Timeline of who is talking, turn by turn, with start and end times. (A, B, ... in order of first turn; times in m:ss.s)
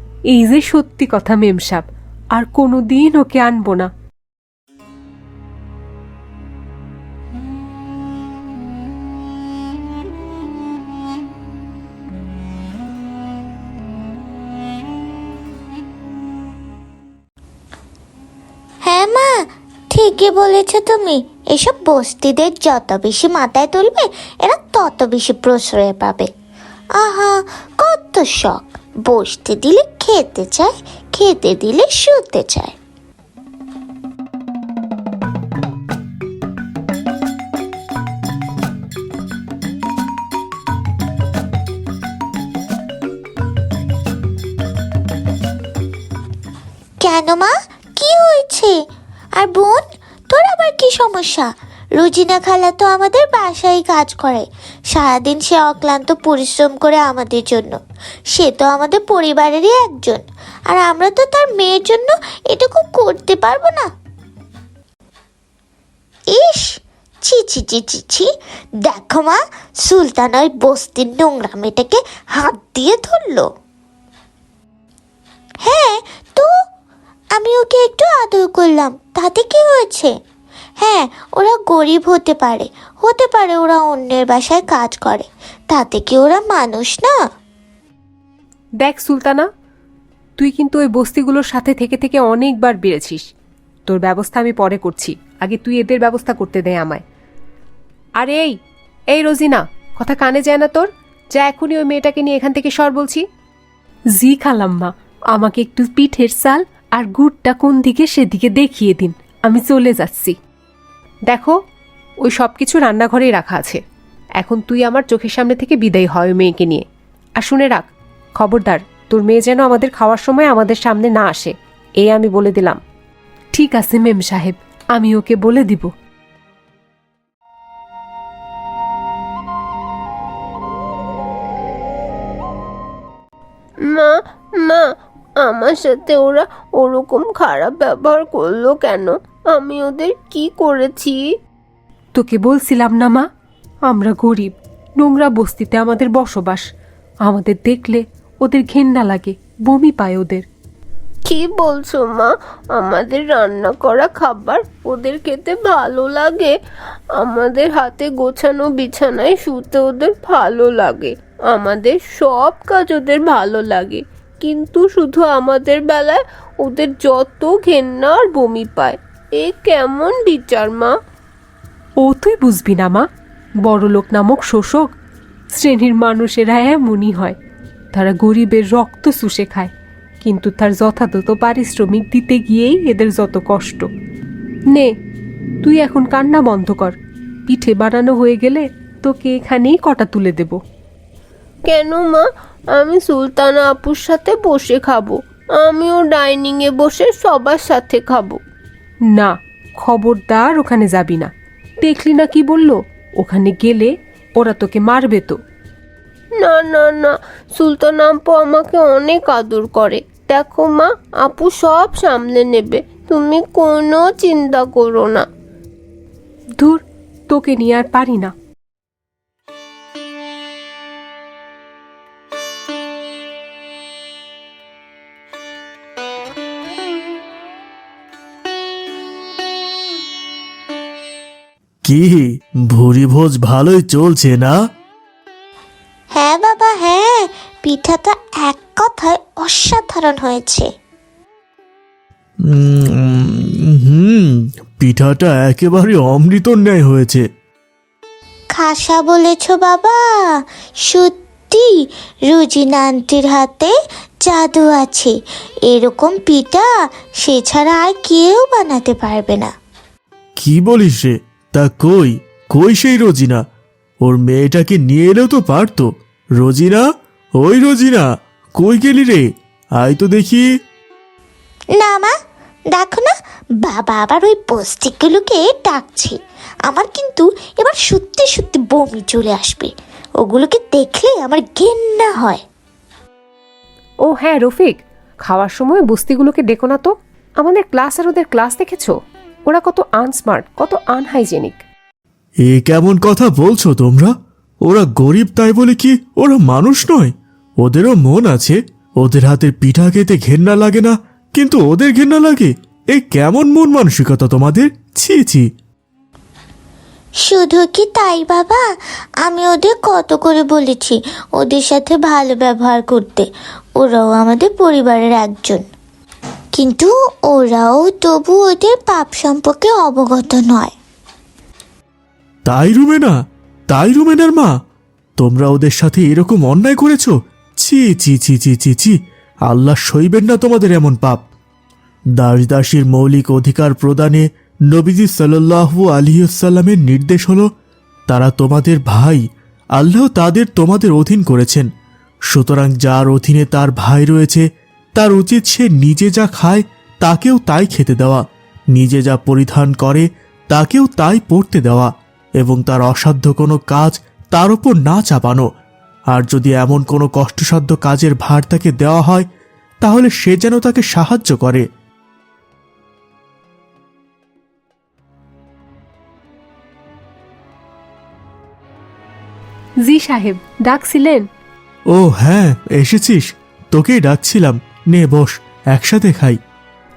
0:00.3-0:03.9 A
0:18.8-0:26.3 B
0:27.0-0:32.7 B
0:47.0-0:48.7 B
0:49.4-0:57.8 B
0:58.3-1:03.9 B
1:06.3-1:08.3 B
1:08.9-1:13.5 B
1:15.6-1:16.5 B
1:17.4-1:20.1 B
1:20.8-1:27.1 B
1:28.8-1:29.5 A
1:30.4-1:33.2 A
1:33.8-1:37.0 A
1:38.2-1:38.6 A
1:39.1-1:43.2 A
1:44.2-1:50.4 A
1:51.3-1:51.6 A
1:52.2-1:53.8 A
1:54.4-1:56.8 A
1:57.4-2:02.8 A
2:03.5-2:05.9 A
2:13.9-2:14.9 C
2:15.4-2:21.2 C
2:22.1-2:23.2 A
2:23.9-2:26.6 A
2:27.2-2:30.4 A
2:31.2-2:36.6 C
2:37.2-2:50.9 C
2:52.0-2:53.0 A
2:53.6-2:54.9 A
2:55.5-2:57.4 A
2:57.9-2:59.7 A
3:00.2-3:03.9 A
3:05.6-3:06.9 A
3:07.5-3:10.6 A
3:11.6-3:18.4 C
3:19.1-3:21.3 A
3:21.8-3:25.4 A
3:26.4-3:35.2 C
3:36.6-3:38.3 A
3:51.8-3:54.6 D
3:56.1-4:00.7 B
4:02.5-4:07.2 D
4:08.5-4:10.0 B
4:10.9-4:11.7 B
4:12.3-4:13.7 B
4:14.2-4:15.2 B
4:15.7-4:16.7 B
4:17.2-4:19.5 B
4:20.4-4:23.4 D
4:24.0-4:26.8 D
4:27.4-4:29.2 D
4:29.8-4:30.4 D
4:31.8-4:32.1 B
4:32.7-4:36.2 B
4:36.7-4:42.4 B
4:44.1-4:48.9 A
4:49.5-4:51.6 A
4:52.5-4:54.1 D
4:54.7-5:05.4 D
5:07.2-5:08.6 B
5:09.2-5:15.6 B
5:16.5-5:20.7 B
5:22.5-5:23.1 D
5:23.7-5:24.5 D
5:25.2-5:28.9 D
5:29.5-5:31.2 D
5:32.2-5:37.5 D
5:38.1-5:39.2 D
5:39.8-5:41.7 D
5:42.3-5:44.4 D
5:45.0-5:48.2 D
5:48.7-5:55.5 D
5:56.1-5:59.3 D
5:59.8-6:01.6 D
6:09.8-6:11.2 A
6:11.9-6:16.4 D